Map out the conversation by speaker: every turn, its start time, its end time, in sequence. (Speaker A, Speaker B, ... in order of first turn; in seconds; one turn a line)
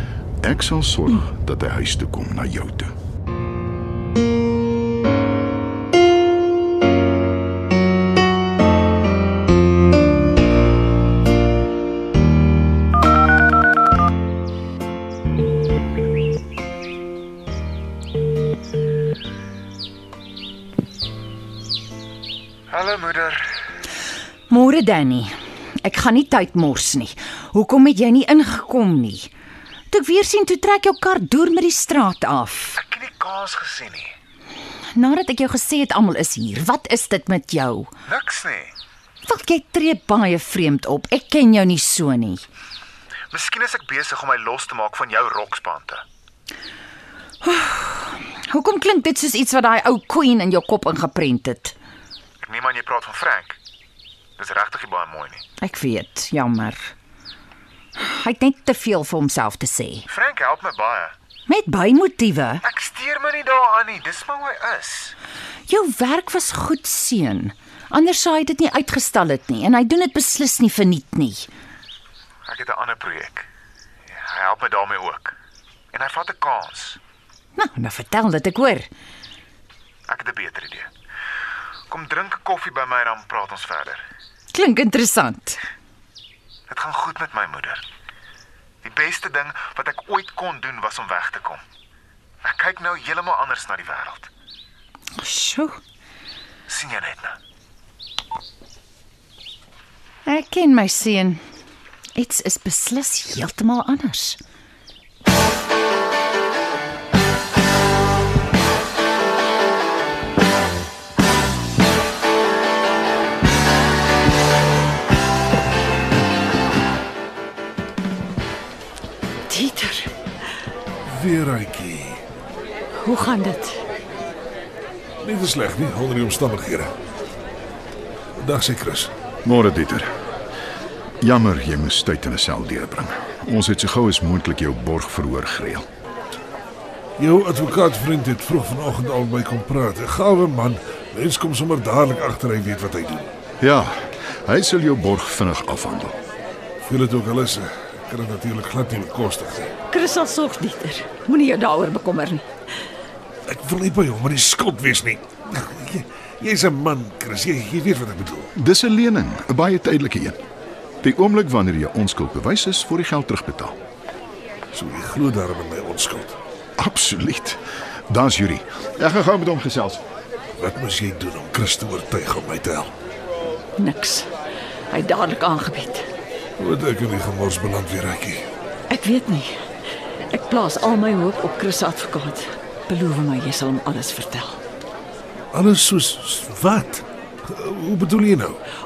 Speaker A: 0.4-2.9
Speaker B: 22.7-23.5
Speaker C: 24.5-29.3
Speaker C: 29.9-32.8
Speaker B: 32.8-34.1
Speaker C: 35.0-37.9
Speaker B: 38.1-38.7
Speaker C: 39.2-42.4
Speaker B: 43.3-46.0
Speaker C: 47.4-51.8
Speaker B: 52.4-53.6
Speaker B: 54.4-55.4
Speaker C: 55.6-56.9
Speaker C: 58.0-60.1
Speaker B: 60.1-61.1
Speaker C: 61.5-62.6
Speaker B: 62.6-65.2
Speaker C: 65.7-71.5
Speaker B: 72.5-73.5
Speaker B: 74.1-75.3
Speaker B: 75.9-77.0
Speaker C: 77.6-78.9
Speaker B: 80.1-80.9
Speaker B: 81.9-84.0
Speaker C: 84.5-85.6
Speaker B: 86.7-87.8
Speaker B: 88.8-91.6
Speaker B: 92.4-94.3
Speaker C: 95.2-95.8
Speaker B: 96.7-97.4
Speaker C: 100.3-101.4
Speaker C: 102.2-104.4
Speaker D: 119.5-120.1
Speaker E: 121.1-122.2
Speaker C: 123.2-123.6
Speaker E: 125.2-126.9
Speaker E: 128.4-129.1
Speaker A: 129.4-130.1
Speaker A: 131.2-135.8
Speaker E: 137.2-143.3
Speaker A: 143.6-146.2
Speaker E: 146.8-149.7
Speaker D: 149.9-152.4
Speaker E: 153.5-158.5
Speaker A: 158.6-160.4
Speaker A: 161.0-163.8
Speaker E: 164.7-166.4
Speaker A: 166.8-170.0
Speaker E: 170.6-172.9
Speaker D: 173.8-174.3
Speaker D: 174.9-176.0
Speaker E: 176.6-178.5
Speaker D: 178.9-179.5
Speaker D: 180.3-184.6
Speaker E: 185.5-188.6